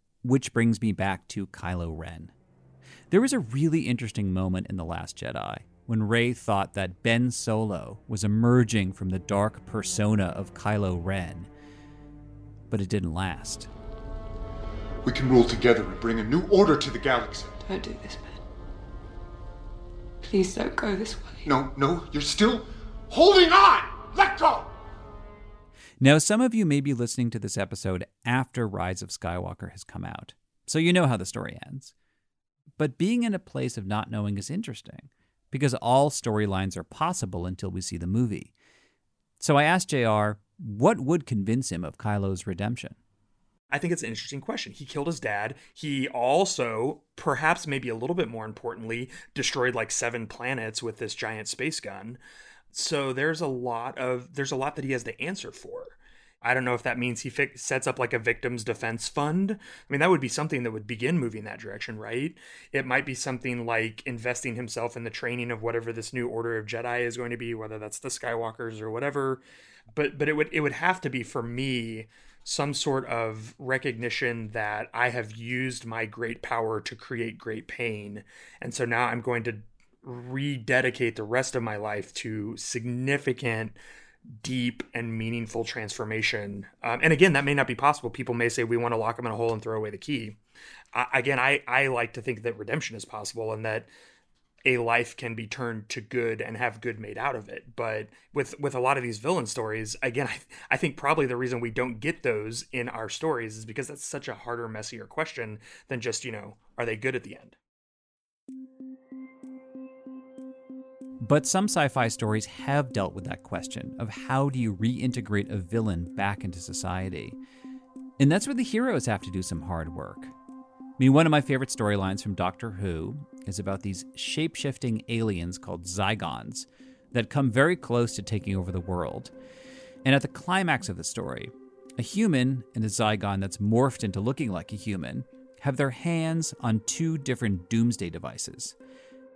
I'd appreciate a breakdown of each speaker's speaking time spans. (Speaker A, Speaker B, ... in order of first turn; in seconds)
Speaker A: 0.2-2.3, 3.1-11.5, 12.7-13.7, 26.0-31.9, 32.8-38.5, 39.4-43.0, 111.2-117.4, 118.2-120.3, 121.0-129.3, 130.0-138.8
Speaker B: 15.1-17.6, 21.5-24.7
Speaker C: 17.6-18.4, 20.2-21.5
Speaker D: 43.7-52.2, 52.7-69.4, 69.9-83.8, 84.4-90.4, 90.9-93.9, 94.7-107.6